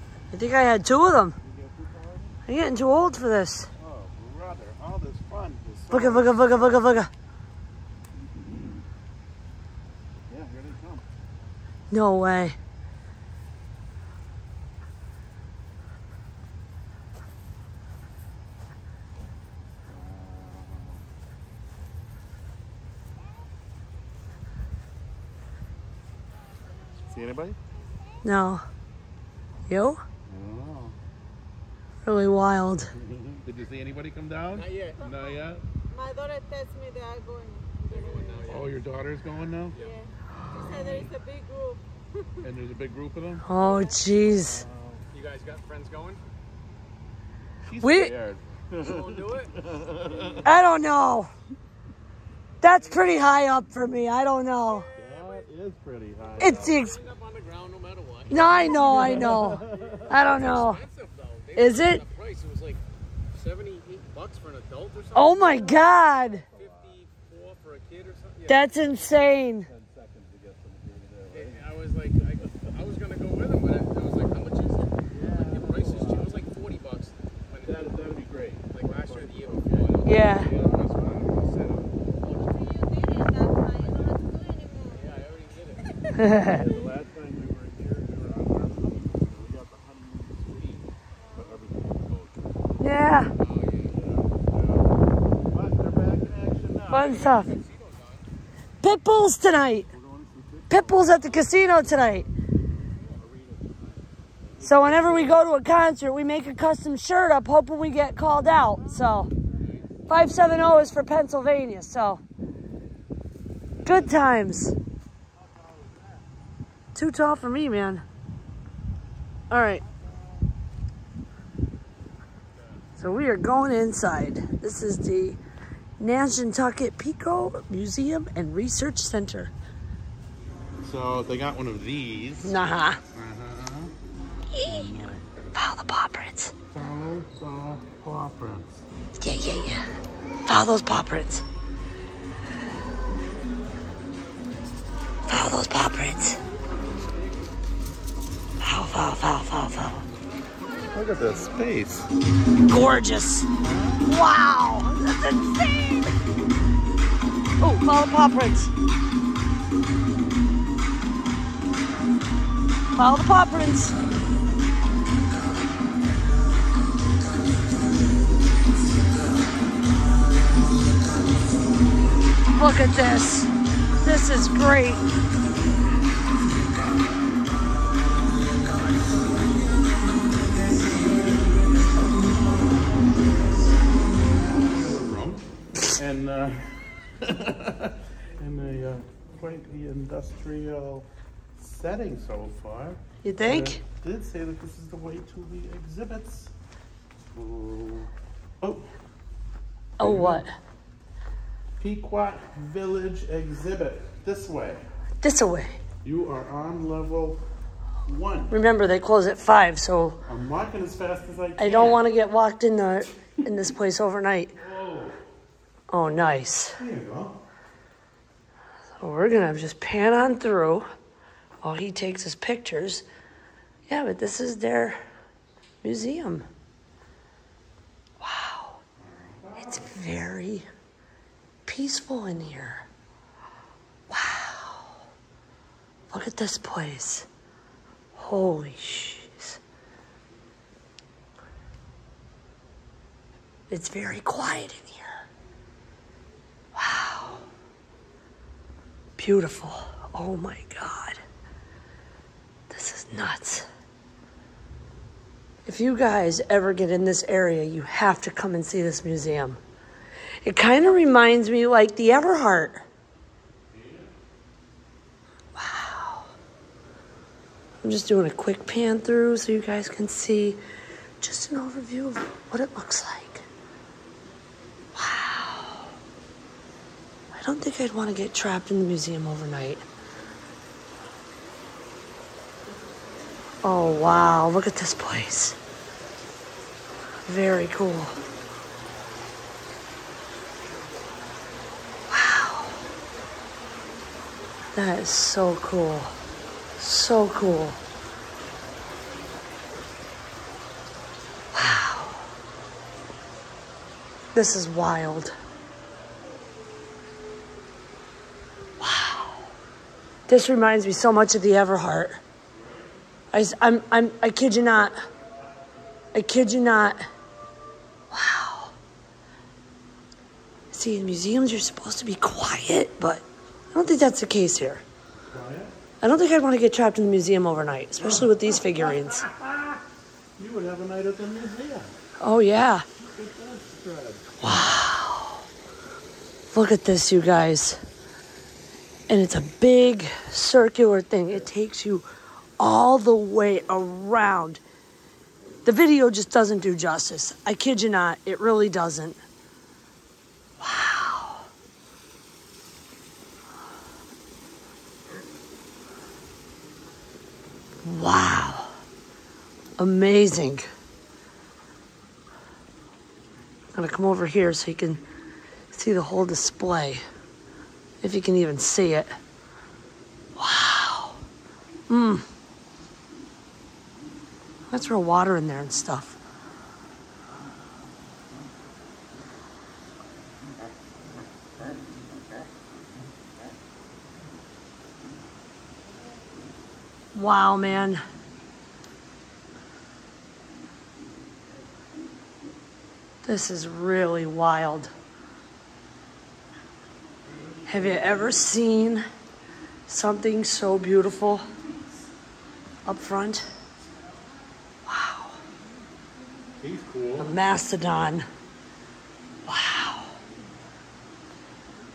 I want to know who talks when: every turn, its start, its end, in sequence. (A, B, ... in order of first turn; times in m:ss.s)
0:00.3-0:01.4 A
0:01.4-0:02.4 B
0:02.4-0:03.7 A
0:03.8-0:07.1 B
0:05.9-0:07.1 A
0:10.3-0:11.0 B
0:11.9-0:12.6 A
0:19.9-0:21.0 B
0:27.0-0:27.6 B
0:28.2-0:28.6 A
0:29.7-0:30.0 A
0:30.3-0:31.0 B
0:32.0-0:32.9 A
0:33.0-0:35.6 B
0:34.5-0:35.0 C
0:35.0-0:38.6 D
0:37.9-0:38.8 C
0:38.4-0:39.8 B
0:39.7-0:40.0 C
0:39.8-0:42.4 D
0:40.4-0:41.1 B
0:40.7-0:41.0 C
0:42.4-0:43.4 B
0:43.5-0:44.7 A
0:43.6-0:44.0 D
0:44.4-0:45.0 B
0:45.1-0:46.2 C
0:47.6-0:50.6 B
0:47.8-0:48.1 A
0:48.8-0:49.6 C
0:50.1-0:50.4 C
0:50.4-0:51.3 A
0:52.6-0:54.8 A
0:54.7-0:55.5 C
0:55.0-0:56.8 B
0:56.4-0:57.0 A
0:56.4-1:02.8 C
0:58.3-1:00.8 A
0:58.5-1:00.4 B
1:01.5-1:02.0 A
1:03.3-1:05.8 C
1:05.1-1:06.4 A
1:06.5-1:08.7 C
1:06.5-1:06.9 B
1:08.5-1:09.7 A
1:09.6-1:11.6 B
1:11.3-1:21.4 C
1:15.1-1:16.3 B
1:17.5-1:21.9 B
1:20.0-1:20.5 A
1:21.9-1:22.5 C
1:22.2-1:25.0 D
1:23.5-1:24.2 C
1:24.9-1:26.0 C
1:26.0-1:26.9 D
1:26.2-1:26.6 A
1:26.4-1:32.5 B
1:31.2-1:31.6 D
1:32.8-1:33.3 A
1:33.4-1:34.0 C
1:33.9-1:34.9 B
1:35.4-1:37.5 B
1:36.9-1:37.5 A
1:36.9-1:38.2 C
1:38.8-1:39.9 A
1:39.9-1:42.3 B
1:40.7-1:42.2 A
1:43.2-1:44.0 B
1:44.5-1:45.3 B
1:44.6-1:49.3 A
1:50.1-1:52.2 A
1:53.8-1:54.7 A
1:53.8-1:54.1 B
1:56.9-1:58.0 A
1:59.5-1:59.8 A
2:03.0-2:05.4 A
2:06.0-2:09.5 A
2:10.8-2:12.6 B
2:12.4-2:13.0 A
2:13.1-2:13.9 B
2:14.5-2:16.5 A
2:14.6-2:15.2 B
2:16.7-2:18.8 B
2:19.2-2:19.8 A
2:20.4-2:21.4 A
2:25.3-2:26.4 A
2:28.6-2:30.0 A
2:30.9-2:32.1 B
2:32.7-2:33.5 A
2:33.6-2:34.1 B
2:34.0-2:36.1 A
2:37.6-2:38.7 A
2:43.0-2:44.0 A
2:52.5-2:55.0 A
3:04.5-3:16.5 B
3:13.2-3:13.8 A
3:17.3-3:18.8 B
3:20.0-3:20.5 A
3:20.0-3:20.4 B
3:21.8-3:24.8 B
3:25.2-3:25.8 A
3:26.0-3:27.4 B
3:28.0-3:28.5 B
3:28.5-3:30.2 A
3:30.3-3:32.0 B
3:31.6-3:34.5 A
3:34.6-3:35.2 B
3:35.9-3:36.8 A
3:36.8-3:37.3 B
3:39.0-3:40.8 A
3:41.6-3:43.0 A
3:43.9-3:45.0 A
3:45.8-3:46.4 A
3:48.2-3:48.8 A
3:49.0-3:49.9 B
3:49.6-3:50.7 A
3:51.7-3:52.9 A
3:54.1-3:54.9 A
3:56.1-3:57.3 A
3:58.2-3:59.6 A
4:03.7-4:05.2 A
4:06.8-4:07.4 A
4:09.2-4:11.2 A
4:12.7-4:13.7 A
4:15.6-4:19.6 A
4:20.4-4:22.8 A
4:23.7-4:24.1 B
4:25.6-4:26.3 A
4:27.8-4:30.6 A
4:31.2-4:33.4 A
4:34.9-4:35.8 A
4:37.3-4:39.8 A
4:43.6-4:45.6 A
4:47.3-4:48.2 A
4:52.1-4:52.8 A
4:54.7-4:56.1 A
4:56.8-4:57.8 A
5:01.5-5:02.2 A
5:04.3-5:05.3 A
5:08.8-5:09.4 A
5:10.3-5:12.2 A
5:12.5-5:12.9 B
5:13.3-5:15.0 A
5:16.1-5:17.1 A
5:18.1-5:18.7 A
5:20.7-5:24.8 A
5:25.3-5:25.7 B
5:26.0-5:29.2 A
5:28.0-5:29.8 B
5:30.4-5:31.9 B
5:32.2-5:32.8 A
5:33.0-5:34.6 B
5:34.4-5:35.3 A
5:36.5-5:37.8 A
5:39.1-5:42.1 A
5:42.6-5:44.6 A
5:45.6-5:49.2 A
5:50.6-5:51.4 A
5:57.8-5:58.7 A
5:59.8-6:00.6 A
6:03.8-6:05.0 A
6:05.7-6:07.0 A
6:08.0-6:09.2 A
6:10.4-6:11.2 A
6:11.9-6:12.2 A
6:14.7-6:16.2 A
6:27.1-6:28.0 A
6:33.2-6:34.9 A
6:37.7-6:39.0 A
6:39.9-6:41.4 A
6:42.9-6:43.4 A
6:44.9-6:45.4 A
6:46.6-6:47.3 B
6:47.2-6:48.3 A
6:49.4-6:50.1 A